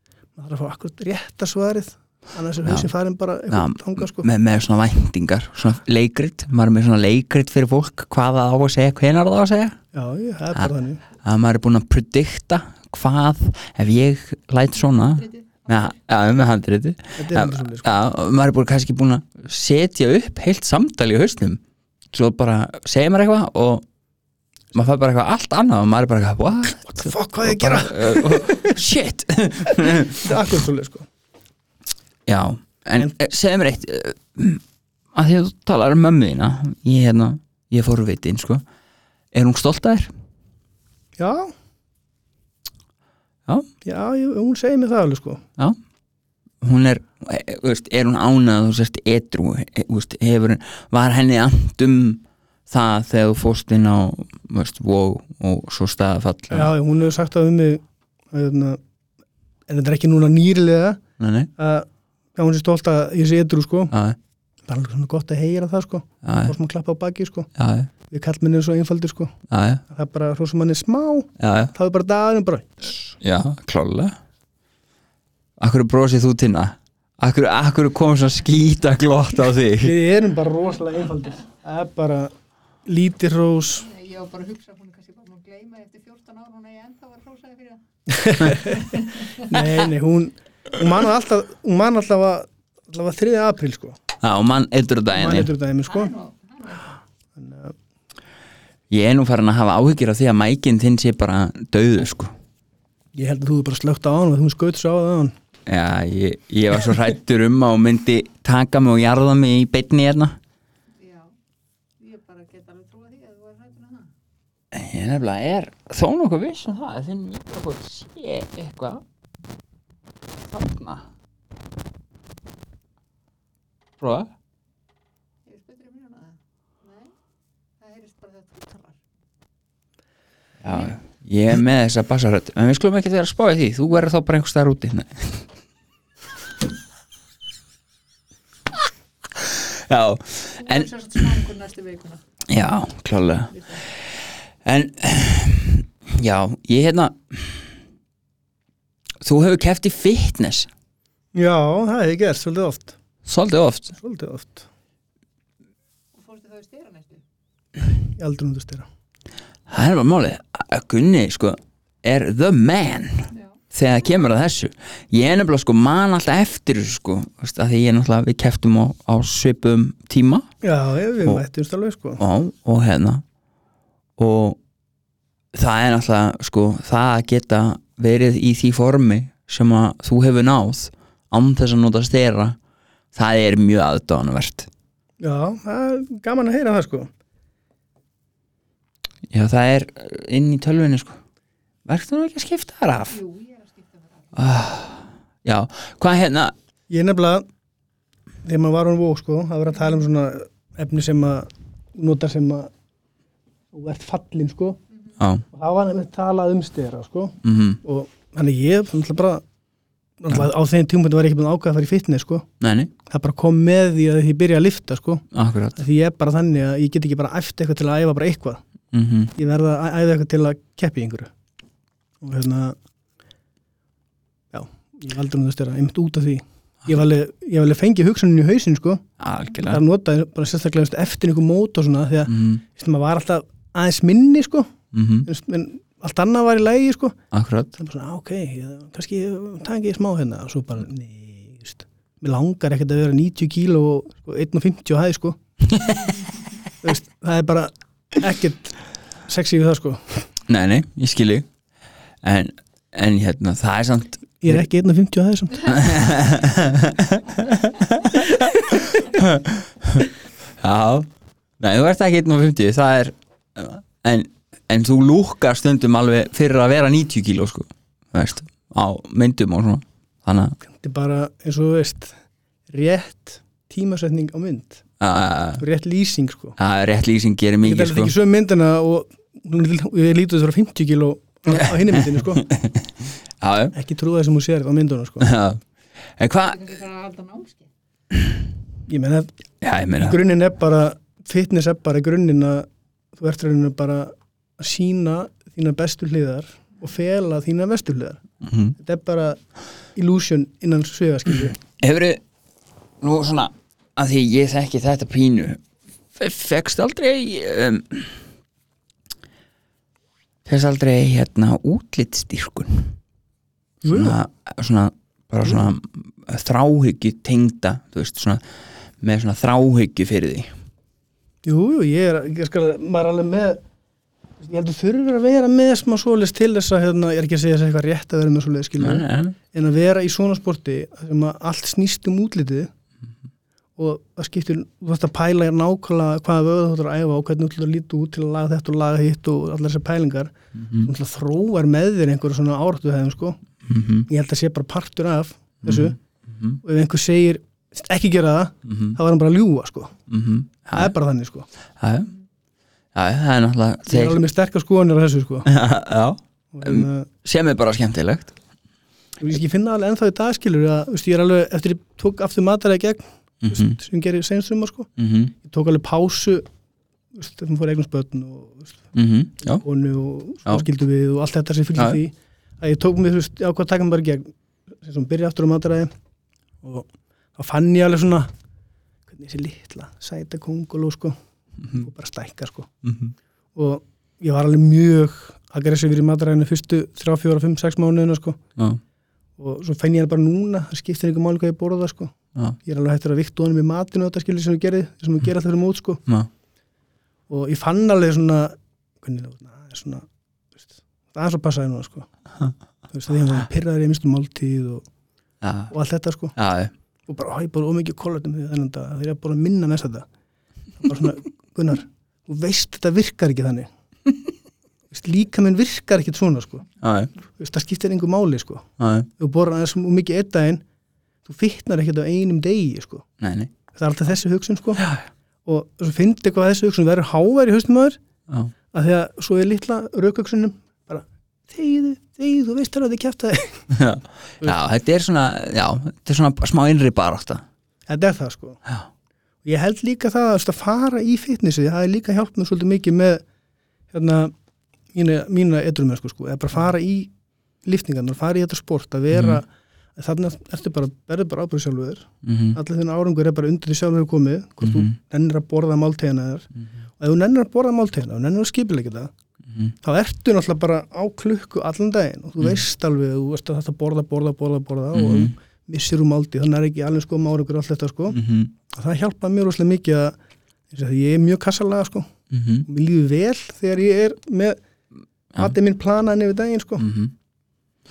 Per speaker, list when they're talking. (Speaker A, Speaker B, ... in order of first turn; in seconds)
Speaker A: 0.3-4.3, 9.9-11.0, 17.2-17.9, 26.9-28.8, 29.6-31.1, 41.2-41.5, 43.8-45.4, 56.5-58.8, 59.7-61.0, 61.6-63.9, 64.7-67.5, 68.1-69.3, 69.9-72.9, 79.8-82.3, 82.8-83.9, 88.1-94.0, 95.1-96.1, 97.3-97.7, 103.1-105.3, 151.3-152.9, 153.9-154.7, 158.0-158.9, 170.6-172.2, 185.2-187.1, 196.9-197.4, 198.4-202.7, 203.7-204.8, 205.5-209.4, 210.2-212.5, 213.1-218.6, 219.3-221.3, 222.2-222.8, 224.5-229.0, 229.6-234.7, 235.2-237.2, 237.8-245.4, 246.8-250.2, 254.4-255.9, 270.6-272.1, 272.7-274.8, 275.6-276.6, 277.6-282.5, 283.7-285.3, 288.9-289.3, 290.0-298.2, 298.8-299.4, 299.9-301.6, 313.8-314.2, 321.4-323.6, 324.4-332.7, 333.8-343.4, 344.1-346.0, 346.6-349.9, 350.7-351.5, 353.9-355.5, 356.5-357.1, 359.2-364.9, 365.4-366.4, 367.1-368.8, 369.4-375.9, 376.6-378.3, 379.1-381.1, 381.7-382.7, 383.5-388.4, 389.4-396.0, 397.3-400.1, 400.6-402.1, 402.9-404.9, 405.7-406.3, 407.1-410.1, 410.8-413.7, 414.9-416.7, 417.4-420.6, 421.2-423.1, 423.7-424.9, 425.4-428.0, 428.7-433.7, 437.9-438.6, 439.4-443.2, 443.9-444.3, 444.9-447.1, 447.6-459.1, 459.8-470.1, 470.7-472.1, 472.6-474.6, 475.4-476.9
Speaker B: 2.6-2.9, 3.5-9.8, 11.2-21.6, 22.1-23.8, 24.7-30.4, 32.2-38.6, 39.3-40.1, 46.6-56.7, 61.2-61.5, 63.9-64.2, 66.2-66.5, 67.5-67.9, 69.5-69.8, 71.4-71.7, 73.2-74.2, 75.6-79.9, 94.2-95.5, 98.9-102.3, 105.7-110.4, 114.7-119.0, 120.5-121.1, 124.0-124.3, 130.6-135.4, 139.3-140.9, 142.5-143.5, 144.6-147.7, 149.2-150.7, 153.2-153.9, 159.7-170.5, 172.2-173.2, 174.2-174.6, 175.5-182.6, 183.1-184.7, 189.3-191.2, 191.8-193.2, 194.3-196.5, 205.2-205.4, 207.4-207.8, 212.6-212.9, 215.3-215.8, 218.9-219.3, 229.2-229.8, 232.3-232.6, 234.9-235.3, 237.3-237.7, 245.7-246.2, 250.5-251.5, 252.2-254.6, 255.6-261.1, 261.6-270.6, 275.0-275.6, 276.6-278.1, 281.5-283.7, 285.2-285.6, 286.2-286.7, 289.6-290.2, 298.4-298.7, 301.5-302.2, 303.0-305.6, 306.1-308.2, 310.4-312.9, 313.9-318.4, 319.0-320.5, 328.8-329.3, 340.5-340.9, 343.6-344.1, 345.6-346.6, 348.6-349.0, 350.1-350.9, 351.8-352.1, 352.9-354.2, 355.4-358.3, 363.4-363.8, 365.0-365.3, 368.9-369.6, 382.8-383.1, 405.4-405.7, 406.4-406.7, 416.8-417.1, 418.8-419.1, 423.2-423.5, 424.8-425.0, 433.7-437.4, 449.1-449.4, 452.2-452.6, 454.6-454.9, 459.5-459.7, 464.9-465.3, 468.1-468.5, 472.3-472.6, 476.8-477.1
Speaker C: 14.9-15.9, 83.8-87.8, 88.4-89.3, 95.9-96.9, 111.0-111.3, 112.0-114.1, 125.5-127.1, 127.8-129.0, 140.6-142.2, 143.5-143.8, 156.1-157.2, 163.3-163.6, 193.1-194.5, 286.4-287.7